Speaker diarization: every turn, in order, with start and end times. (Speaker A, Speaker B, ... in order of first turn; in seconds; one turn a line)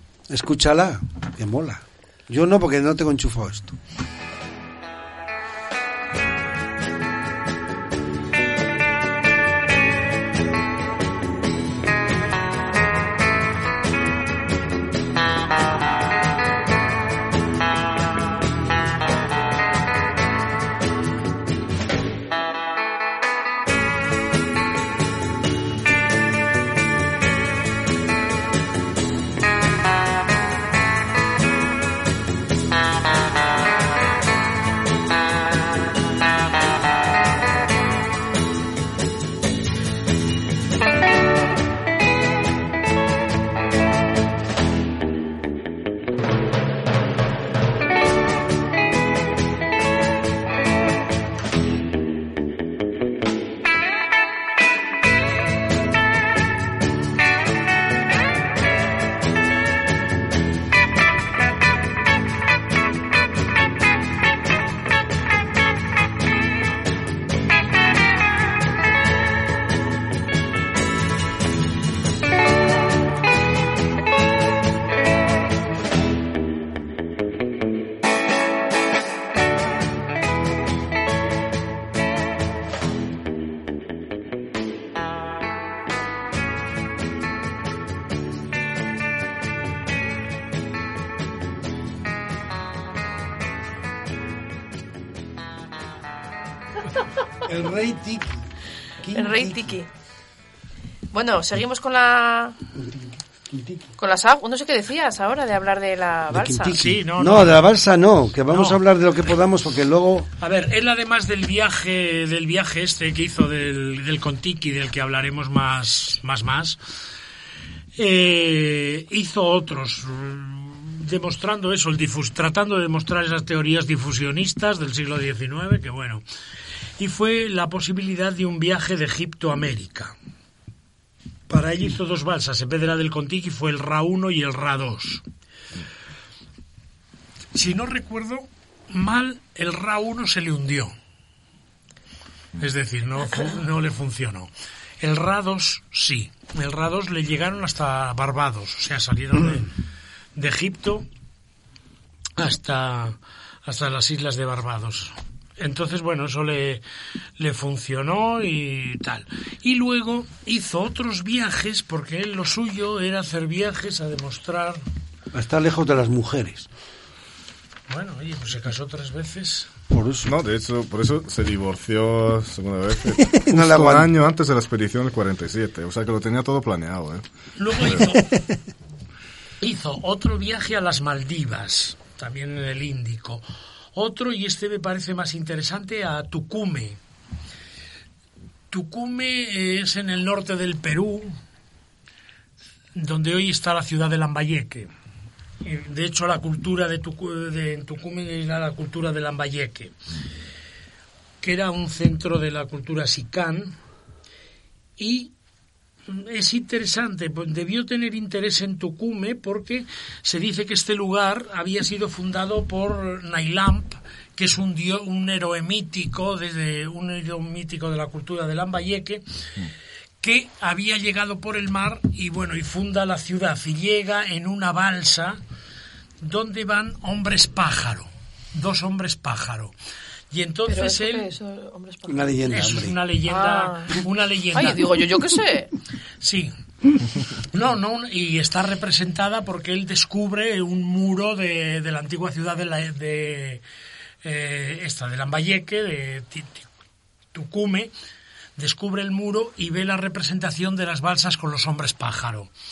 Speaker A: 0.3-3.8
Speaker A: 97.4-98.4
Speaker A: 99.0-99.8
Speaker B: 99.1-99.9
Speaker B: 101.1-102.5
Speaker A: 102.8-103.9
Speaker B: 104.0-106.8
Speaker A: 106.3-110.3
Speaker C: 106.7-107.7
Speaker C: 108.5-108.8
Speaker C: 110.4-116.8
Speaker C: 118.0-126.2
Speaker C: 127.0-130.1
Speaker C: 131.5-135.2
Speaker C: 137.5-140.9
Speaker C: 142.6-149.7
Speaker C: 150.3-151.1
Speaker C: 152.4-156.8
Speaker C: 157.4-164.8
Speaker A: 165.3-166.7
Speaker C: 167.9-169.7
Speaker A: 169.9-170.3
Speaker D: 170.2-178.1
Speaker A: 173.3-174.1
Speaker C: 177.6-178.4
Speaker C: 179.6-187.0
Speaker C: 188.7-191.4
Speaker C: 192.9-194.9
Speaker C: 195.6-199.9
Speaker C: 201.4-203.8
Speaker C: 205.0-205.3
Speaker C: 206.1-219.2
Speaker C: 220.2-225.4
Speaker C: 226.2-229.7
Speaker C: 230.3-231.3
Speaker B: 230.7-232.3
Speaker A: 232.1-233.0
Speaker C: 232.5-235.0
Speaker B: 233.3-233.9
Speaker B: 234.5-235.7
Speaker C: 236.2-236.5
Speaker C: 237.3-243.6
Speaker C: 244.2-246.7
Speaker C: 247.3-247.9
Speaker C: 248.6-252.5